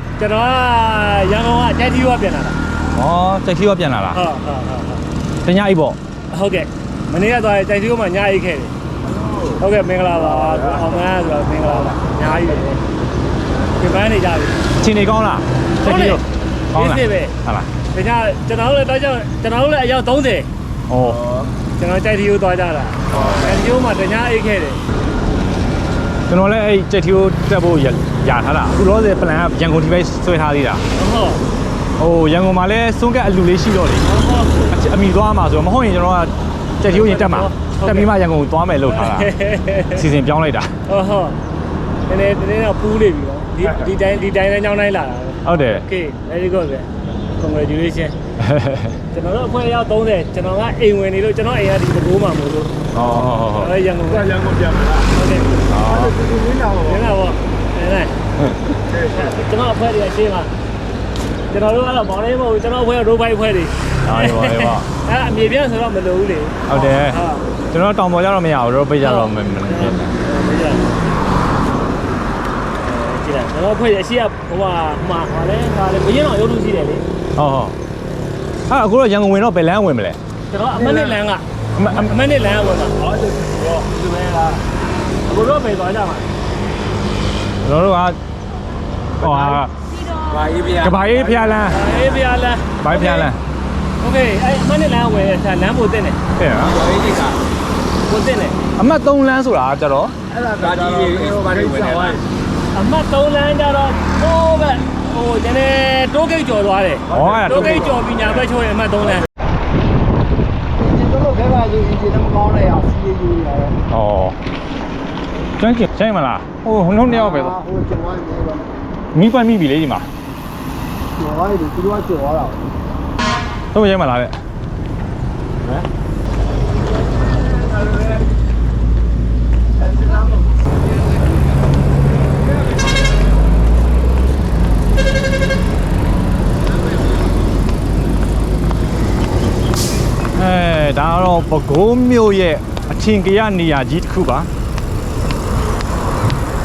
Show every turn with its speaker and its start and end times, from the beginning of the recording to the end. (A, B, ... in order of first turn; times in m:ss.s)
0:00.2-0:02.6 A
0:02.9-0:04.2 B
0:04.1-0:05.0 A
0:05.4-0:06.0 B
0:06.3-0:08.7 A
0:09.0-0:09.6 C
0:09.6-0:12.8 A
0:10.2-0:11.0 C
0:13.8-0:14.6 A
0:14.8-0:17.7 B
0:15.8-0:16.2 A
0:16.7-0:17.3 A
0:17.9-0:20.5 A
0:20.9-0:21.2 B
0:21.0-0:21.5 C
0:21.8-0:24.8 A
0:23.1-0:23.6 B
0:26.3-0:30.8 B
0:30.9-0:31.4 A
0:32.0-0:34.1 B
0:34.0-0:34.5 A
0:34.7-0:39.3 B
0:36.9-0:38.1 A
0:38.9-0:40.0 A
0:39.9-0:40.8 B
0:40.9-0:41.4 A
0:42.1-0:48.2 A
0:45.4-0:45.8 B
0:48.4-0:49.0 B
0:49.1-0:52.8 A
0:52.9-0:53.7 B
0:53.0-0:53.3 C
0:53.5-0:54.3 A
0:54.1-0:55.1 C
0:55.1-0:55.5 A
0:55.7-0:56.2 B
0:55.7-0:57.1 C
0:56.9-0:58.1 A
0:58.8-0:59.3 C
0:59.1-1:00.5 A
1:01.5-1:07.5 A
1:04.0-1:04.9 B
1:06.7-1:07.2 B
1:07.7-1:10.1 B
1:09.0-1:10.9 A
1:12.8-1:17.0 A
1:17.4-1:17.8 B
1:18.7-1:20.2 B
1:20.5-1:23.0 A
1:20.7-1:21.2 C
1:21.8-1:22.1 B
1:23.0-1:23.9 C
1:23.9-1:24.6 A
1:25.3-1:26.3 A
1:27.6-1:28.2 B
1:29.2-1:29.7 B
1:29.2-1:29.6 A
1:30.3-1:32.0 D
1:30.8-1:31.9 B
1:31.6-1:33.3 A
1:32.8-1:33.4 B
1:34.0-1:36.2 A
1:36.4-1:36.8 B
1:36.6-1:37.4 D
1:38.1-1:38.6 A
1:38.8-1:40.2 B
1:40.3-1:42.2 C
1:40.6-1:42.2 D
1:42.7-1:49.3 A
1:47.1-1:48.0 C
1:47.1-1:47.9 B
1:51.5-1:53.7 E
1:53.9-1:54.4 B
1:55.6-1:57.6 B
1:57.8-1:58.6 E
1:59.1-2:00.1 B
2:01.5-2:02.6 E
2:03.7-2:04.4 B
2:20.3-2:24.5 B